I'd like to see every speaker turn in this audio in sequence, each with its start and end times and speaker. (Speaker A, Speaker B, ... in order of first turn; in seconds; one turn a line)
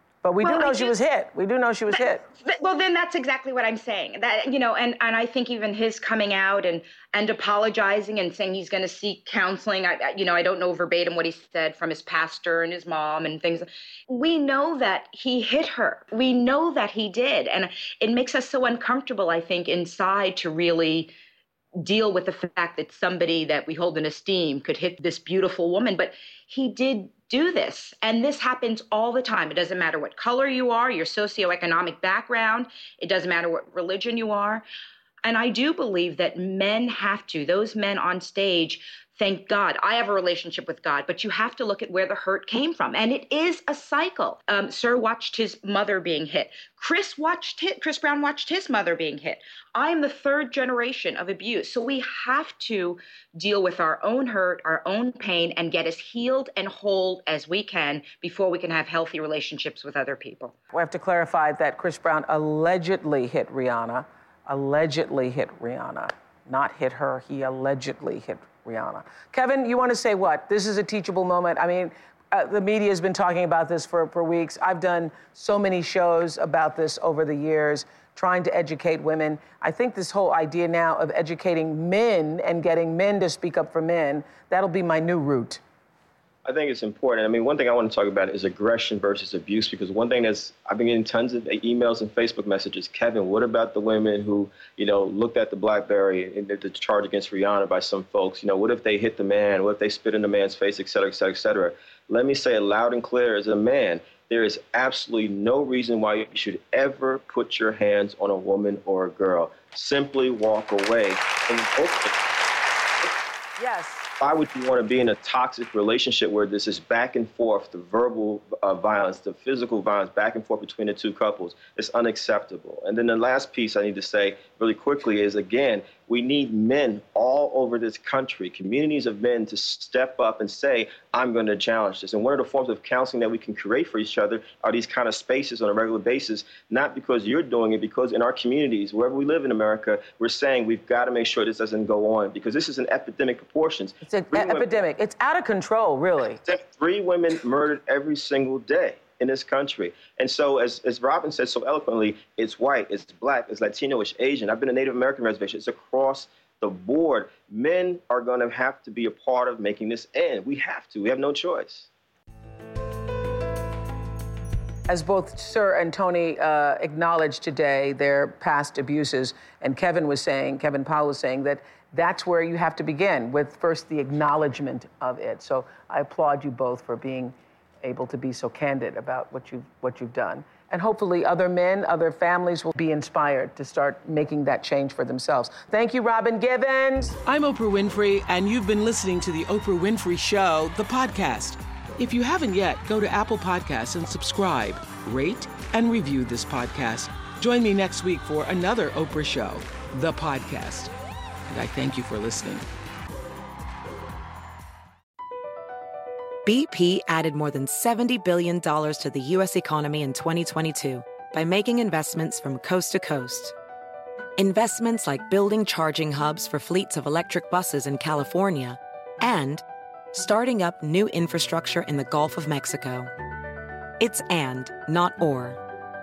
Speaker A: 0.2-2.2
Speaker B: 0.4-1.0
Speaker B: 1.9-21.1
Speaker B: 21.8-34.6
Speaker B: 35.2-60.5
Speaker A: 60.7-85.6
Speaker C: 86.4-112.2
Speaker A: 113.6-114.1
Speaker C: 114.2-144.7
Speaker A: 144.0-146.4
Speaker C: 146.4-161.9
Speaker A: 164.9-187.2
Speaker D: 187.2-200.9
Speaker D: 201.5-202.6
Speaker E: 206.4-213.5
Speaker E: 214.4-223.1
Speaker E: 224.0-225.6